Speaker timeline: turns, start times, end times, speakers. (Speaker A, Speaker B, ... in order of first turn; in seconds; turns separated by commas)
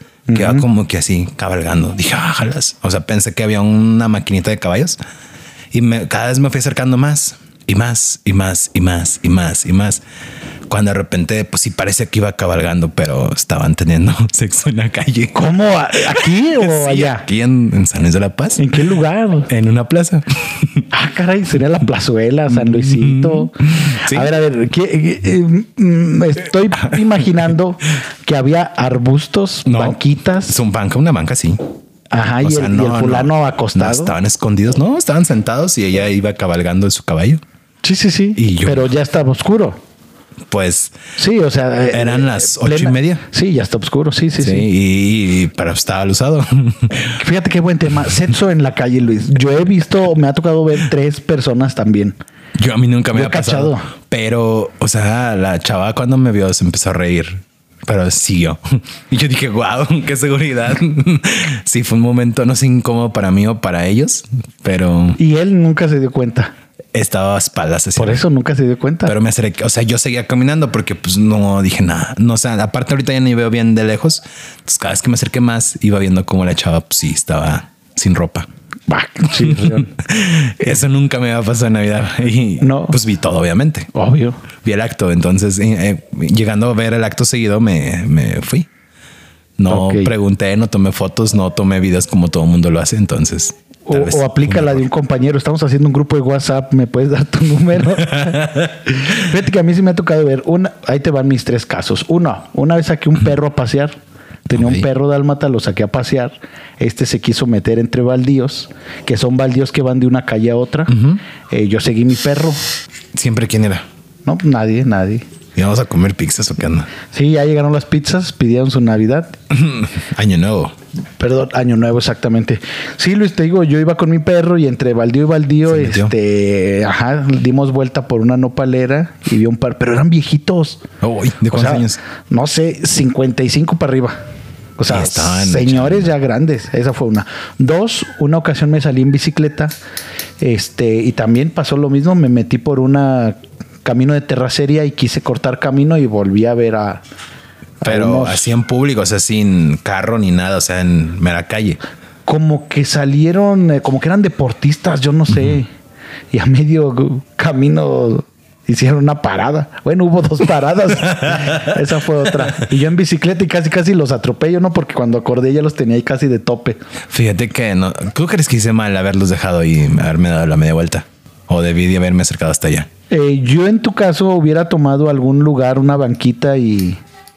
Speaker A: 0.3-0.7, Speaker B: 0.3-5.0, Speaker B: 5.7-10.0, Speaker B: 10.7-18.7, Speaker A: 15.3-17.2, Speaker A: 18.6-19.5, Speaker B: 19.5-20.9, Speaker A: 20.9-30.6, Speaker B: 22.5-24.3, Speaker B: 29.6-31.6, Speaker A: 32.1-34.1, Speaker B: 32.4-37.4, Speaker A: 37.8-39.8, Speaker B: 38.4-38.9, Speaker B: 40.5-40.9, Speaker A: 41.2-44.7, Speaker B: 41.9-43.2, Speaker B: 44.4-47.1, Speaker A: 47.2-52.1, Speaker B: 52.6-65.2, Speaker A: 53.1-53.9, Speaker A: 65.2-66.5, Speaker B: 66.9-68.2, Speaker A: 68.0-69.1, Speaker B: 69.0-78.5, Speaker A: 78.9-79.9, Speaker B: 79.4-83.9, Speaker A: 82.6-83.0, Speaker A: 83.9-84.4, Speaker B: 84.6-88.7, Speaker B: 89.6-94.8, Speaker A: 89.7-90.1, Speaker A: 93.9-110.9, Speaker B: 98.0-98.7, Speaker B: 104.5-104.8, Speaker B: 110.9-111.2, Speaker A: 111.5-112.6, Speaker B: 113.1-113.8, Speaker A: 114.2-115.2, Speaker B: 115.5-116.9, Speaker A: 117.1-119.3, Speaker B: 119.5-120.7, Speaker A: 121.2-130.8, Speaker B: 125.7-126.1, Speaker B: 131.0-132.0, Speaker A: 131.5-134.2, Speaker A: 134.8-139.7, Speaker B: 134.9-136.1, Speaker A: 140.4-147.0, Speaker A: 147.8-148.5, Speaker B: 147.8-151.8, Speaker A: 152.2-155.7, Speaker B: 155.3-155.6, Speaker A: 156.3-166.8, Speaker B: 161.2-161.7, Speaker B: 167.1-172.9, Speaker A: 173.1-177.0